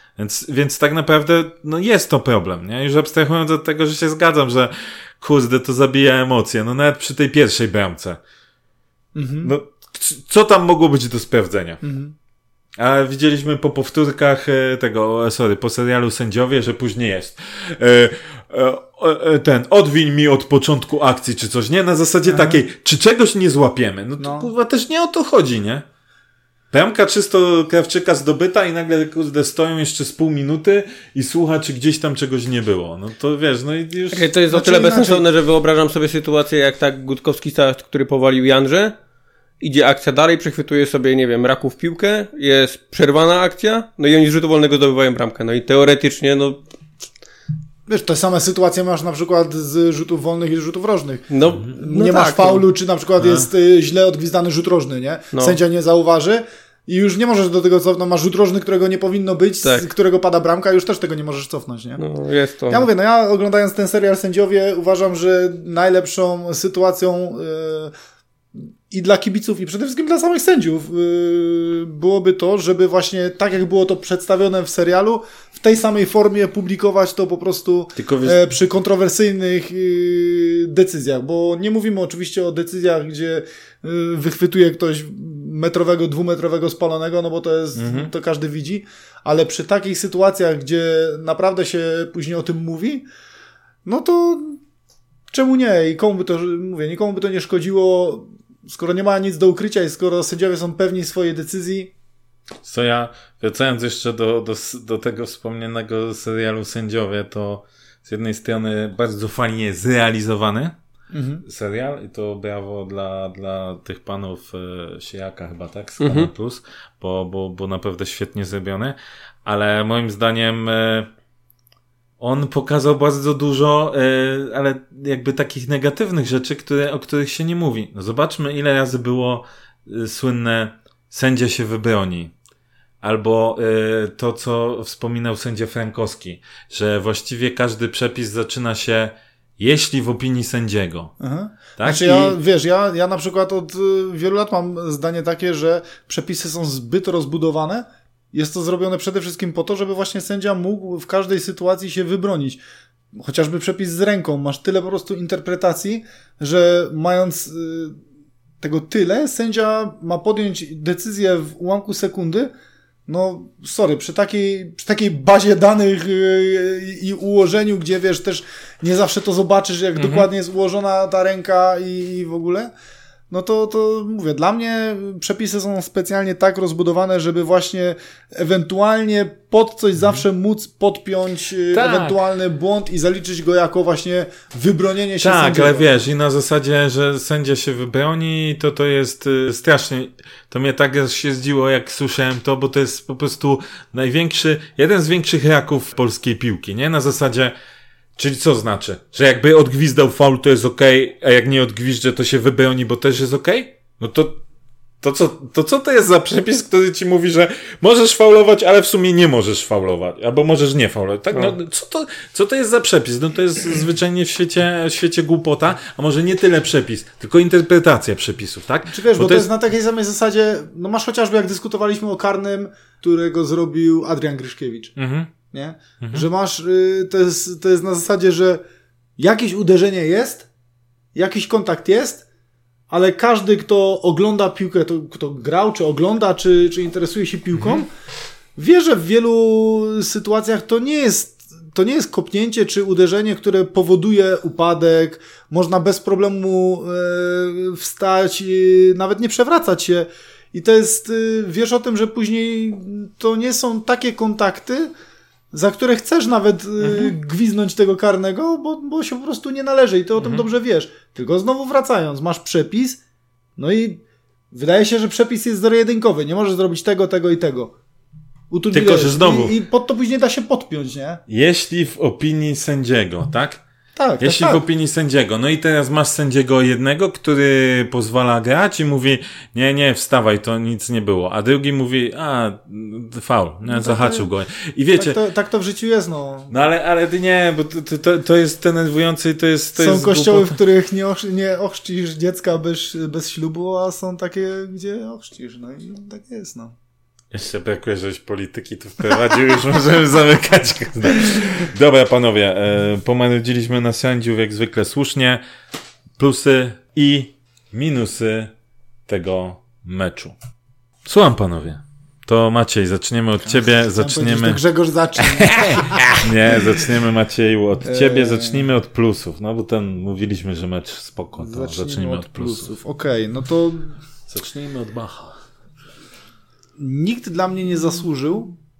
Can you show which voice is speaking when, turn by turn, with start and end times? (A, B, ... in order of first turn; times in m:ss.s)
0:00.2-0:08.2 A
0:09.1-0:09.5 B
0:09.4-0:11.8 A
0:11.8-0:12.1 B
0:12.8-0:25.8 A
0:22.2-0:22.6 B
0:24.2-0:24.5 B
0:26.7-0:34.3 A
0:34.1-0:38.9 C
0:34.5-0:35.2 B
0:39.6-0:46.6 C
0:47.9-1:02.0 B
0:51.3-0:52.6 C
0:53.2-0:53.5 A
0:55.3-0:55.6 C
1:02.0-1:02.9 C
1:02.7-1:07.9 B
1:08.9-1:33.0 B
1:18.0-1:18.4 A
1:27.8-1:28.1 A
1:33.8-1:34.6 B
1:35.3-1:41.9 B
1:42.6-1:50.8 A
1:51.1-1:51.4 B
1:51.4-2:01.1 A
1:56.0-1:56.3 C
2:02.2-2:12.3 A
2:13.0-2:21.1 A
2:21.2-2:32.6 B
2:21.8-2:22.4 A
2:33.1-2:38.0 B
2:38.6-2:42.5 B
2:43.1-2:52.7 B
2:50.0-2:50.3 A
2:53.3-3:05.9 B
3:01.7-3:02.2 A
3:05.2-3:17.5 A
3:18.2-3:24.4 A
3:25.0-3:39.5 A
3:38.9-3:44.9 B
3:45.0-3:45.3 A
3:45.5-3:48.6 B
3:46.0-3:46.2 A
3:49.2-3:50.5 B
3:51.1-3:52.2 B
3:52.9-3:57.9 B
3:57.5-3:57.8 A
3:58.6-4:14.9 B
4:15.5-4:23.0 B
4:16.8-4:17.1 A
4:20.2-4:20.5 A
4:23.6-4:27.7 B
4:28.5-4:31.2 B
4:28.7-4:29.6 A
4:31.3-4:33.6 A
4:34.0-4:34.6 B
4:34.2-4:45.2 A
4:43.7-4:44.3 B
4:44.9-4:46.5 B
4:46.5-4:50.6 A
4:49.8-4:56.7 B
4:57.3-5:05.4 A
5:06.2-5:08.5 A
5:09.1-5:10.3 A
5:11.0-5:14.6 A
5:13.5-5:16.8 B
5:15.2-5:22.7 A
5:17.8-5:18.7 B
5:21.4-5:23.9 B
5:24.3-5:25.4 A
5:26.8-5:28.5 B